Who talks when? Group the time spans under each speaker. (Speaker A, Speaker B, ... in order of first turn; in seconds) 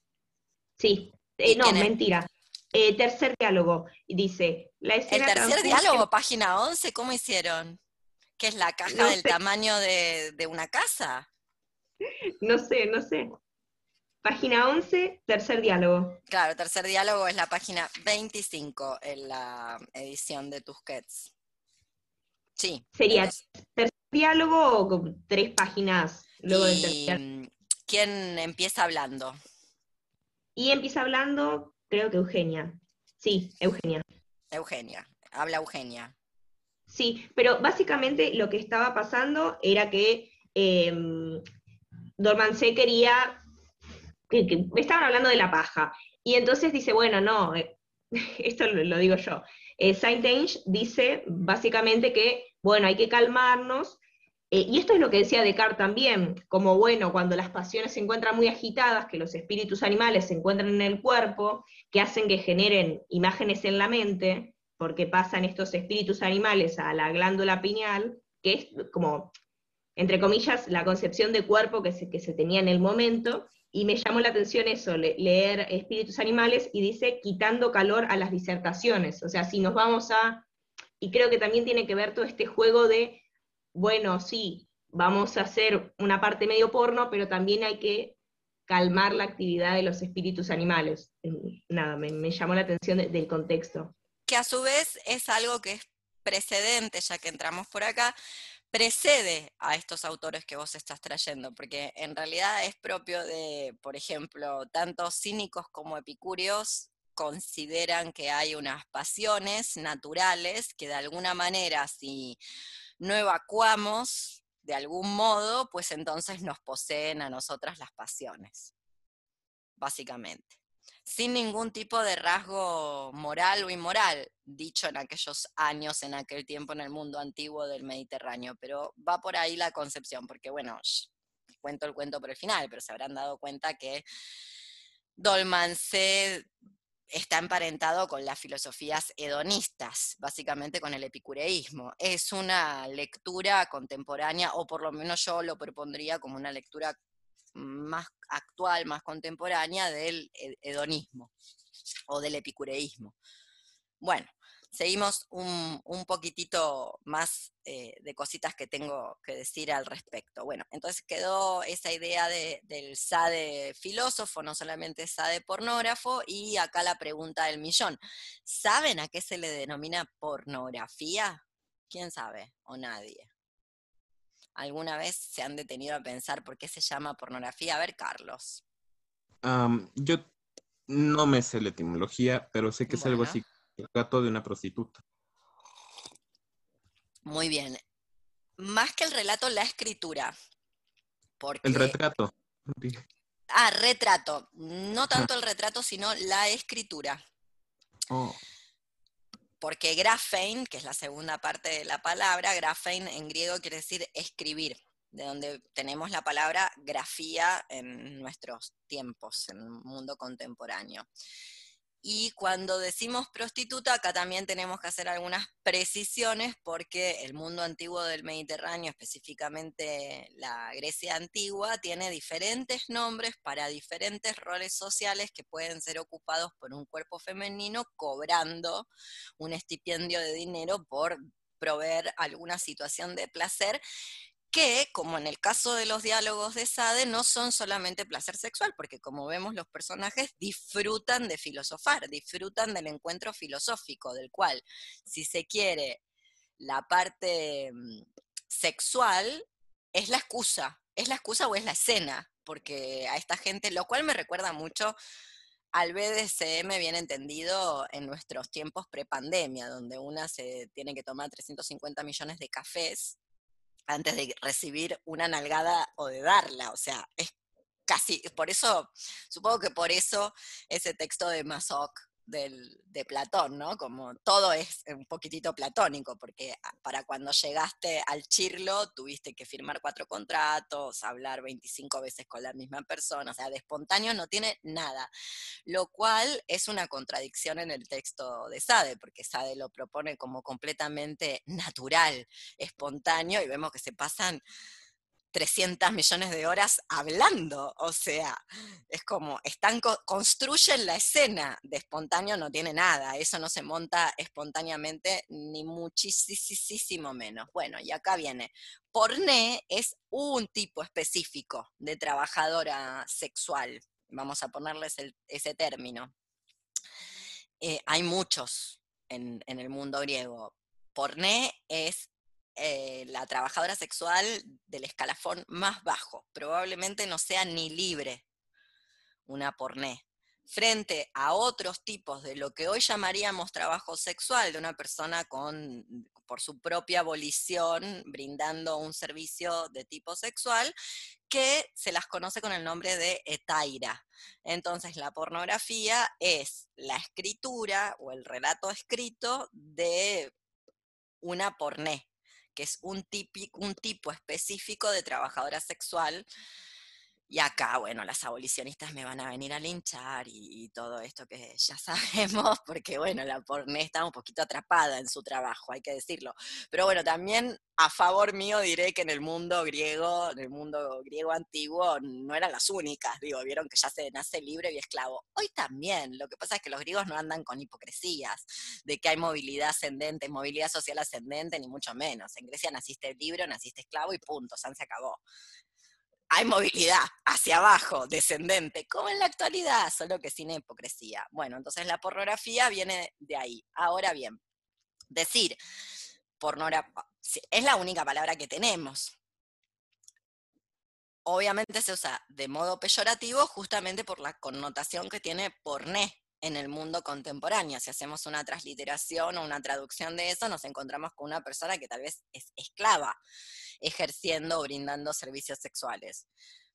Speaker A: 0.8-6.0, 8.9-9.3, 12.4-13.3, 14.2-16.2, 22.9-27.2, 30.6-34.0, 36.9-41.4, 42.2-43.4, 44.3-54.0, 54.5-69.3, 70.0-80.4, 81.0-83.2, 83.7-88.2, 88.7-93.9
Speaker B: 1.4-1.9, 5.1-7.8, 8.4-11.3, 16.3-21.3, 22.6-23.4, 26.5-29.4, 34.5-36.1, 94.3-98.2, 98.7-112.4, 113.0-118.7, 119.8-120.5, 121.0-131.1, 131.6-134.0, 135.2-136.5, 137.1-146.9, 147.5-151.3, 152.1-153.1, 154.0-173.3, 174.6-178.6, 182.9-183.4, 187.2-187.8, 188.6-190.3, 191.4-192.0, 193.5-197.2, 199.6-211.1, 212.0-233.8, 234.5-246.0, 246.6-254.9, 255.7-263.2, 263.9-267.3, 267.9-285.1, 285.7-294.4, 295.3-316.1, 317.6-328.2, 329.3-340.7, 341.3-350.3, 351.2-356.3, 357.3-385.2, 386.3-394.4, 395.1-395.6, 396.4-399.1, 401.2-413.2, 413.8-416.3
Speaker C: 179.4-180.3, 180.9-185.0, 191.6-193.0, 198.1-198.4